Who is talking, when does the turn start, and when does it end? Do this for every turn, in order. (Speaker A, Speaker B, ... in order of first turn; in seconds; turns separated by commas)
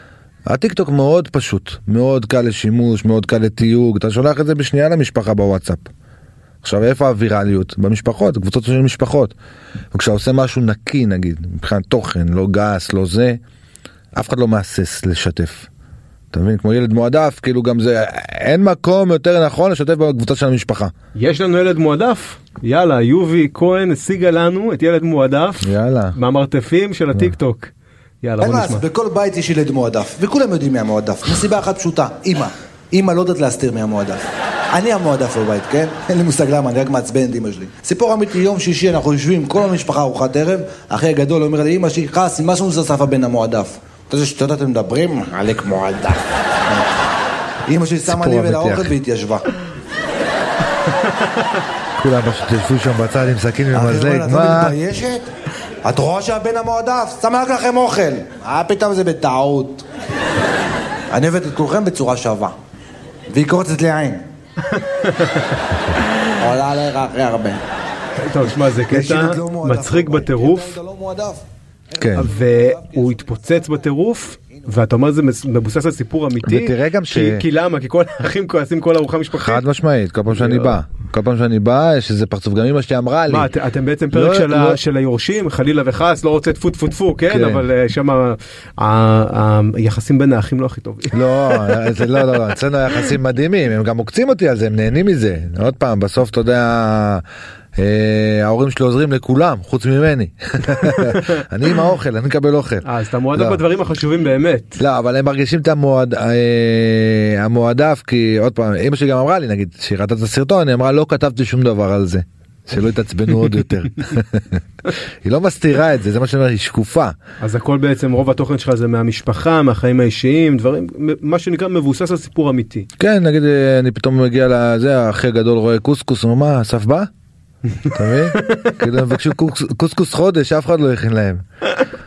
Speaker A: 0.5-5.9, Speaker A: 6.6-9.3, Speaker A: 9.9-13.4, Speaker A: 14.2-15.7, Speaker A: 16.3-20.9, Speaker B: 21.1-28.9, Speaker A: 25.6-26.2, Speaker C: 28.4-46.8, Speaker C: 47.7-49.4, Speaker A: 48.1-48.9, Speaker A: 52.0-54.8, Speaker C: 53.7-55.3, Speaker C: 55.8-59.9, Speaker C: 61.1-62.5, Speaker C: 63.3-64.2, Speaker B: 64.8-65.6, Speaker C: 66.4-67.6, Speaker B: 68.2-70.8, Speaker C: 68.9-71.4, Speaker C: 71.9-73.3, Speaker A: 72.0-72.3, Speaker B: 72.1-79.6, Speaker A: 76.4-77.5, Speaker A: 79.4-83.5, Speaker B: 80.3-80.8, Speaker B: 83.3-92.0, Speaker A: 84.1-84.8, Speaker A: 87.3-87.6, Speaker A: 91.1-97.2, Speaker A: 97.8-103.6, Speaker B: 102.8-104.8, Speaker A: 104.8-117.2, Speaker B: 117.4-122.9, Speaker A: 123.0-127.1, Speaker A: 127.9-131.4, Speaker B: 128.3-128.8